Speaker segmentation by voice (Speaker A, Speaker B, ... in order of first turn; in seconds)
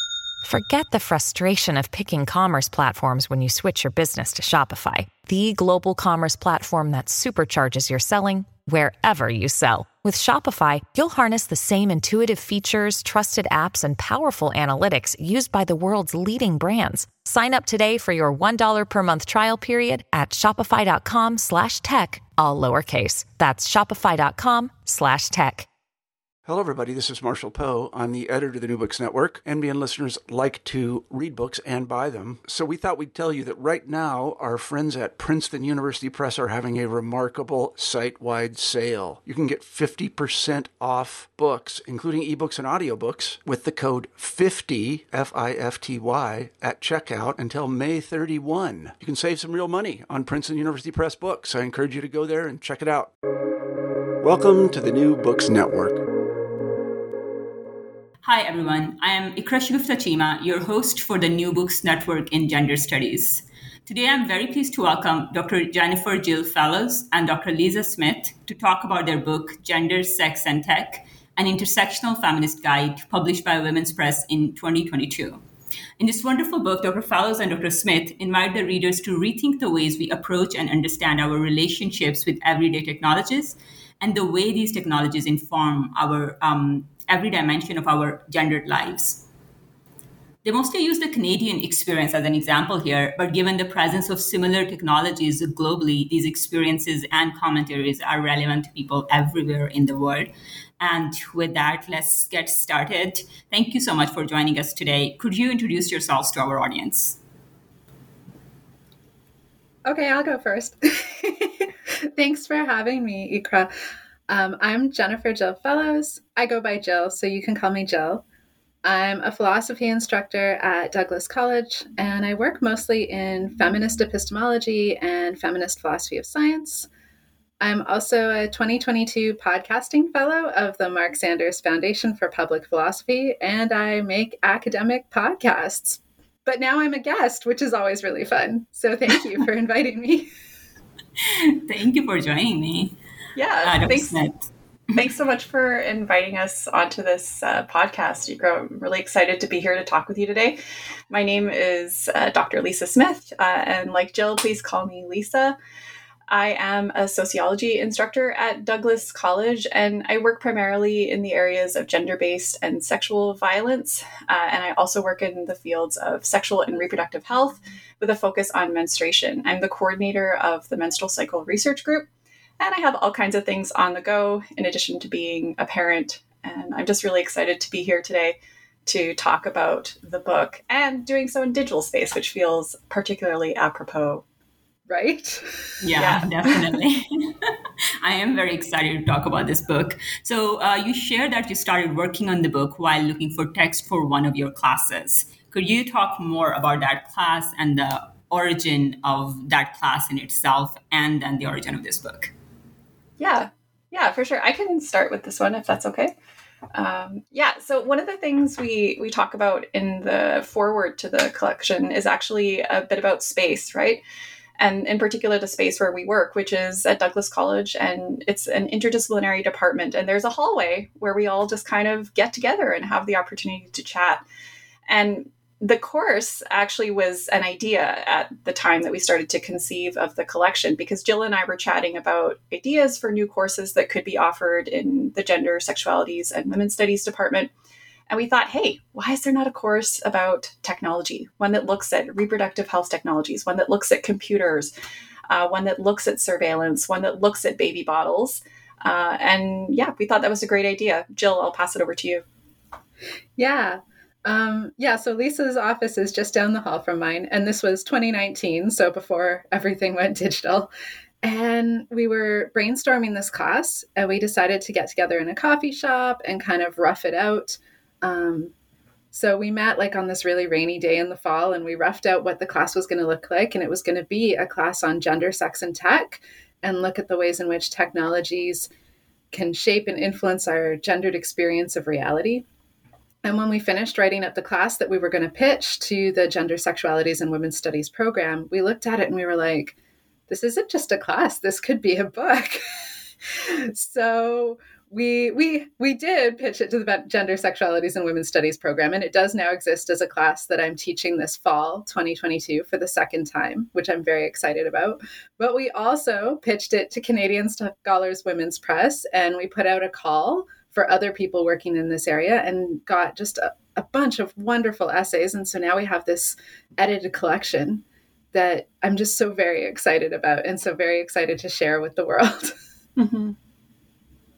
Speaker A: 0.4-25.7
Speaker B: 26.4-53.1, 54.2-56.0
Speaker C: 58.2-75.4, 76.0-89.2, 90.4-107.2, 141.2-142.9, 143.6-144.5, 185.8-187.5, 188.0-202.3
Speaker D: 109.9-113.7, 114.3-118.2, 118.8-126.9, 127.6-140.3, 184.9-185.7, 253.4-260.7, 261.2-268.5, 269.1-278.7, 279.3-282.4, 283.2-289.8, 290.3-292.6, 293.4-317.8, 318.3-322.6
Speaker E: 143.4-144.2, 144.9-150.6, 151.1-155.6, 156.3-172.1, 172.6-184.2, 186.0-186.5, 203.2-206.2, 206.7-214.0, 214.6-224.2, 224.9-237.5, 238.1-244.7, 245.3-252.2, 323.0-323.4